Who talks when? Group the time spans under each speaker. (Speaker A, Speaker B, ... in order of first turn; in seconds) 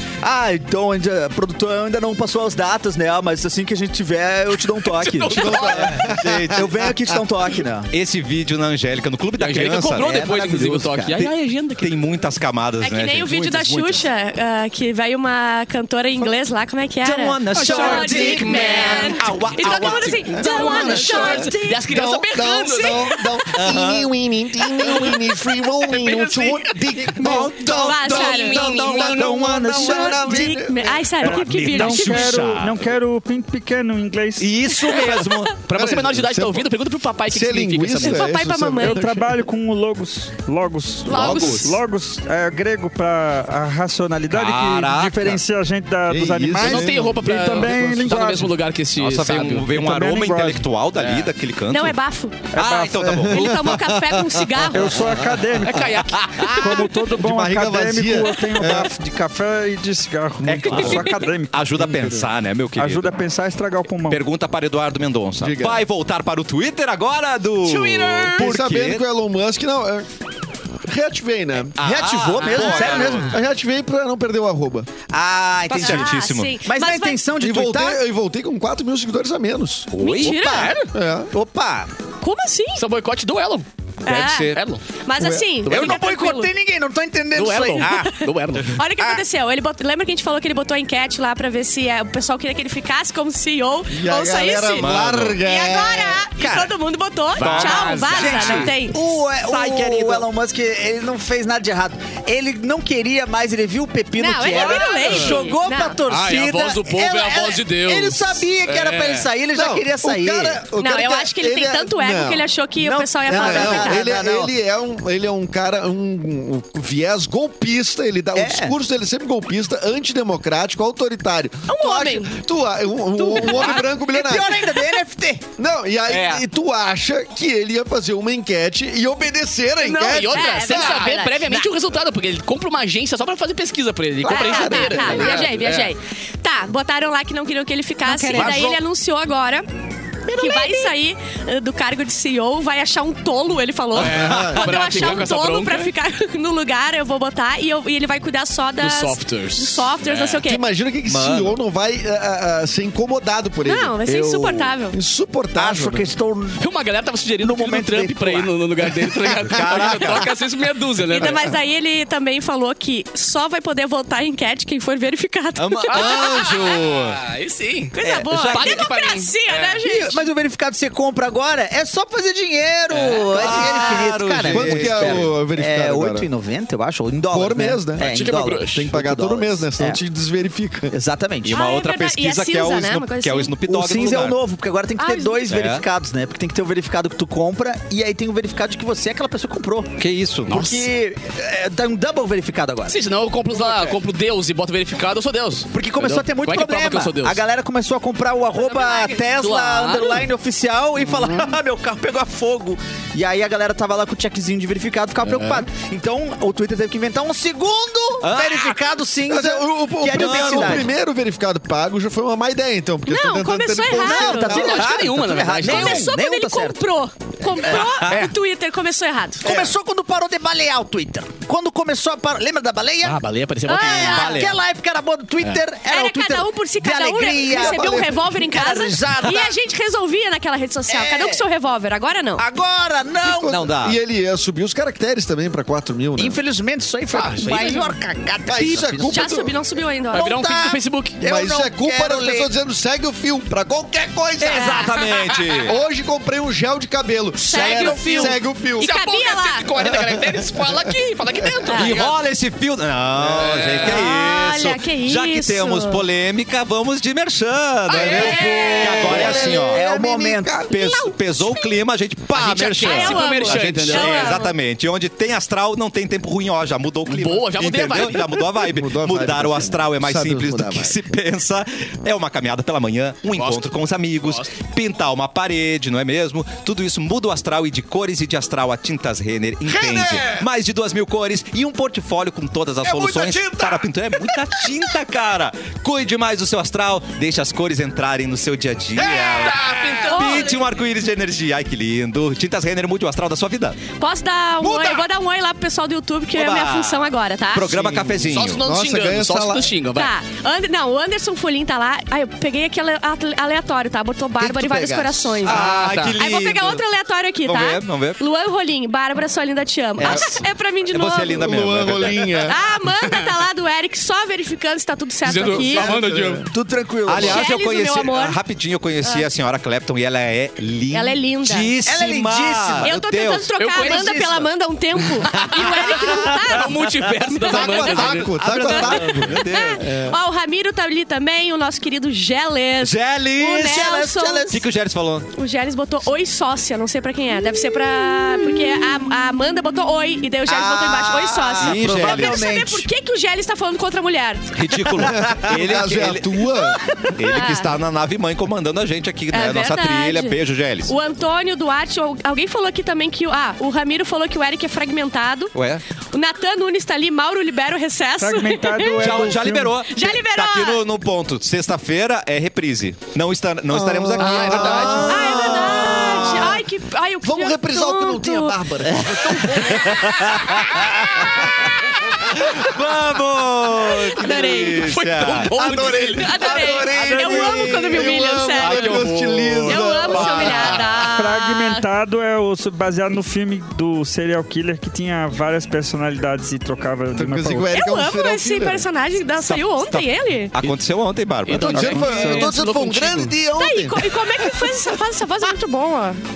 Speaker A: 0.2-5.9, 6.5-7.9, 9.9-11.2, 28.6-30.3, 71.8-73.4, 75.1-78.0, 80.2-80.8, 81.3-81.9, 85.7-88.1, 96.4-96.7, 98.1-110.7, 112.8-114.5, 118.3-118.8, 123.2-125.5, 134.7-135.0, 138.1-138.6, 154.1-154.7, 155.6-156.6, 157.4-158.5, 169.8-180.0, 180.9-181.6, 183.7-193.0, 195.7-210.9, 213.9-216.8, 217.6-218.3, 219.4-229.6, 230.9-231.5, 232.4-233.7, 236.2-239.3, 240.1-242.5, 258.6-260.7, 316.5-317.4, 321.8-322.9, 333.6-334.6, 340.5-342.9
Speaker B: 5.0-6.0, 9.4-12.0, 17.5-23.3, 24.8-25.2, 25.8-27.4, 28.1-29.1, 35.6-38.3, 46.6-49.8, 51.0-51.3, 55.6-56.6, 67.6-68.5, 72.4-73.2, 80.3-80.9, 82.8-83.7, 84.5-84.9, 85.6-86.1, 87.3-88.8, 97.3-98.7, 99.5-100.2, 104.5-105.4, 106.1-109.3, 126.1-126.4, 129.9-135.9, 138.3-138.8, 140.3-140.9, 143.9-145.9, 148.8-150.5, 156.6-161.5, 165.9-167.9, 168.5-169.8, 172.9-173.4, 178.0-178.9, 190.5-190.9, 192.9-197.4, 199.4-200.2, 205.2-205.7, 214.4-216.1, 223.0-224.5, 237.1-237.9, 240.1-241.2, 245.1-245.6, 247.5-252.2, 253.2-254.1, 257.9-259.3, 262.3-264.4, 267.1-268.3, 273.3-274.6, 289.0-290.5, 298.0-300.1, 305.4-306.2, 315.2-316.5, 323.6-328.4, 364.2-365.3, 369.2-370.6, 374.2-376.7, 378.6-379.8, 391.5-393.4
Speaker C: 5.3-7.2, 18.4-19.0, 20.3-31.2, 35.7-36.7, 37.3-39.3, 46.1-47.7, 53.0-55.5, 57.1-58.9, 65.4-65.8, 68.3-70.1, 70.9-71.8, 73.3-74.9, 77.4-80.0, 80.9-81.3, 93.9-96.3, 109.5-112.5, 113.3-124.6, 125.6-131.1, 134.2-135.5, 144.0-145.2, 150.5-154.0, 154.9-156.1, 174.5-176.3, 177.3-178.1, 178.7-180.9, 209.3-214.8, 227.5-228.2, 233.3-236.4, 238.5-239.6, 241.2-244.9, 245.6-248.9, 249.8-250.7, 251.4-251.7, 257.9-260.7, 268.6-271.0, 279.7-280.4, 282.8-284.6, 289.0-290.0, 298.6-299.7, 304.4-305.5, 310.0-310.3, 311.4-312.6, 315.5-316.5, 327.5-330.2, 345.0-346.8, 363.7-366.6, 367.2-370.3, 375.6-380.9, 387.2-388.9, 391.7-394.6
Speaker D: 5.7-6.7, 7.9-10.2, 11.2-14.0, 17.0-20.4, 23.6-24.1, 27.1-29.7, 31.2-32.8, 34.4-35.6, 41.1-41.8, 44.3-45.4, 49.0-52.0, 52.5-53.8, 56.2-56.8, 60.5-63.1, 64.1-69.1, 71.8-73.4, 75.7-76.6, 79.9-80.5, 84.0-84.6, 94.8-95.4, 97.4-98.7, 151.1-151.6, 159.4-160.3, 165.6-167.2, 168.1-168.8, 173.3-175.3, 181.4-184.4, 185.5-185.8, 190.0-190.6, 208.2-208.8, 210.1-210.9, 217.7-218.3, 233.4-234.0, 244.4-245.8, 251.7-259.8, 260.7-293.8, 296.3-298.6, 305.4-306.8, 307.4-308.2, 310.0-310.3, 310.9-312.4, 317.1-323.5, 325.4-326.2, 328.4-329.8, 332.8-333.9, 334.5-335.3, 341.6-342.5, 344.5-346.4, 347.2-350.9, 355.5-355.8, 359.0-366.6, 369.9-371.2, 372.4-375.7, 376.4-381.1, 389.4-392.2
Speaker E: 12.8-21.9, 22.7-23.2, 27.6-32.5, 34.7-35.5, 38.0-39.1, 41.1-41.8, 51.7-52.5, 53.3-55.0, 75.7-77.3, 80.0-80.9, 82.2-82.8, 84.0-86.5, 87.8-99.0, 104.2-106.0, 110.7-114.1, 121.7-122.3, 123.4-123.8, 129.8-131.7, 134.2-139.7, 140.3-150.7, 153.7-155.0, 161.1-166.8, 167.9-170.2, 181.5-183.6, 185.0-185.6, 198.6-199.3, 213.1-214.8, 215.6-219.5, 223.7-224.5, 225.8-232.4, 239.1-240.4, 244.5-244.9, 247.4-249.7, 253.8-256.1, 258.1-258.8, 260.7-261.8, 262.8-264.6, 290.0-290.7, 293.9-298.0, 299.9-311.5, 312.4-316.0, 317.1-318.4, 319.0-319.3, 320.9-321.8, 322.8-334.6, 335.3-344.7, 346.5-347.7, 349.3-355.6, 356.1-359.3, 359.9-360.9, 364.8-368.6, 374.1-374.9, 375.6-379.1, 379.6-381.9, 387.7-390.6, 393.5-396.2
Speaker F: 31.2-34.6, 38.8-48.5, 49.7-50.7, 52.5-53.3, 54.7-62.3, 62.8-64.2, 358.2-359.8, 381.1-387.7, 391.7-392.5